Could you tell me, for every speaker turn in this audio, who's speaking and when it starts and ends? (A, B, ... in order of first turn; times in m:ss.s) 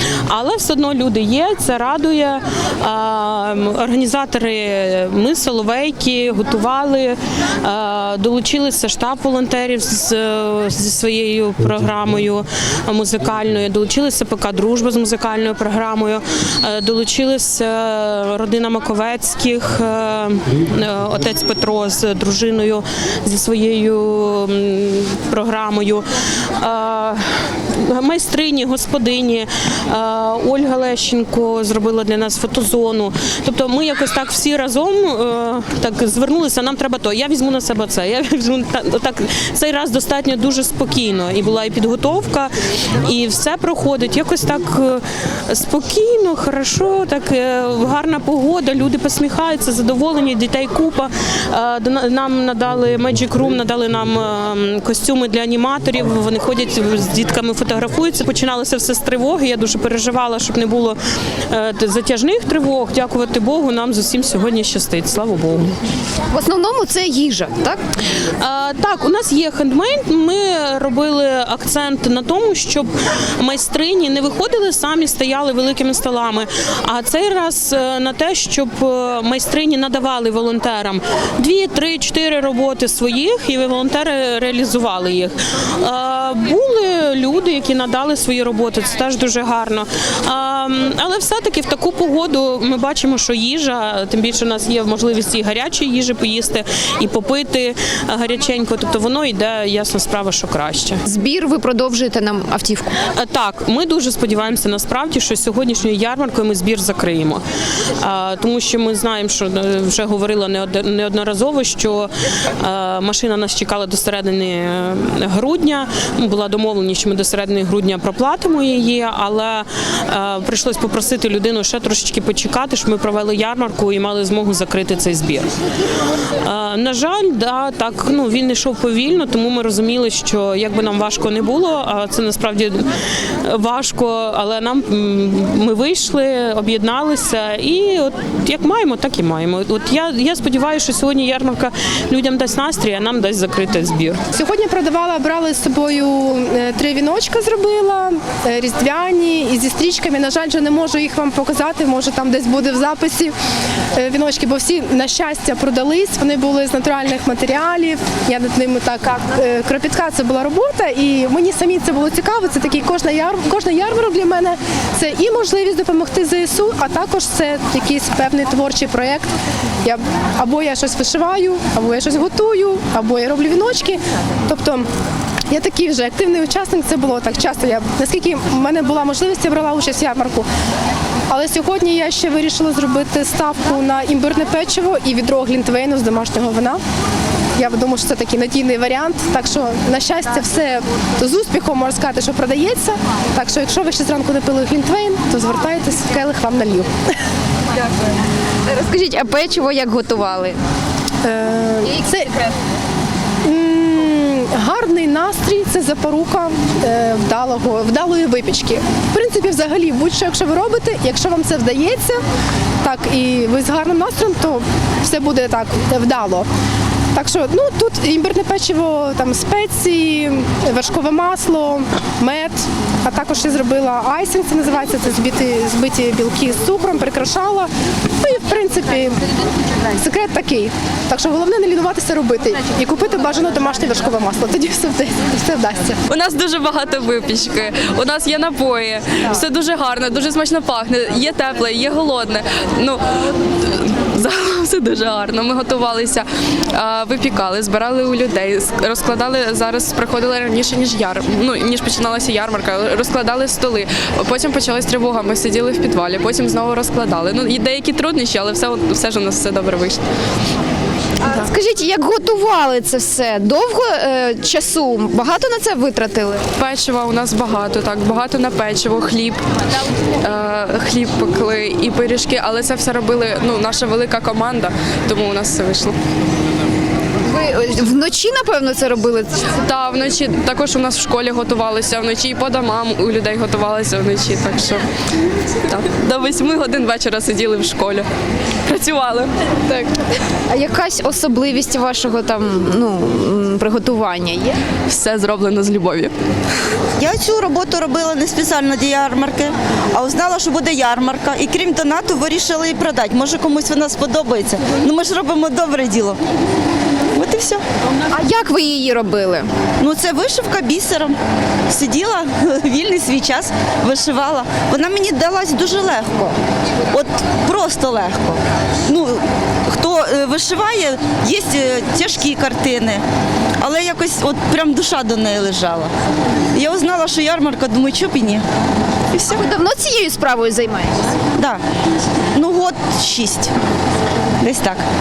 0:00.3-1:05.7 A
1:06.3-1:07.8 B
1:08.4-1:41.0 A
1:41.0-1:43.0 B
1:43.1-2:05.5 A
2:06.4-2:24.2 A
2:24.3-2:33.3 C
2:33.9-2:54.9 C
2:55.5-3:00.5 C
3:01.3-3:06.8 C
3:07.6-3:17.1 C
3:18.6-3:20.6 B
3:21.2-3:22.3 C
3:23.4-3:32.2 C
3:32.8-3:36.5 C
3:37.1-3:49.3 C
3:49.9-3:56.0 C
3:56.1-4:20.0 D
4:21.2-4:26.5 B
4:26.6-4:29.4 D
4:30.1-4:36.0 D
4:37.2-4:39.5 B
4:39.5-4:44.8 D
4:45.7-4:48.1 D
4:48.6-4:49.4 D
4:50.5-4:54.6 B
4:54.9-4:56.1 D
4:57.0-5:06.2 E
5:07.1-5:07.6 E
5:08.1-5:09.5 B
5:09.8-5:11.2 E
5:11.7-5:16.3 E
5:16.9-5:23.0 E
5:23.6-5:25.9 E
5:26.5-5:28.4 E
5:29.1-5:29.4 E
5:29.3-5:31.1 B
5:31.3-5:31.6 E
5:32.3-5:33.5 E
5:34.4-5:34.8 E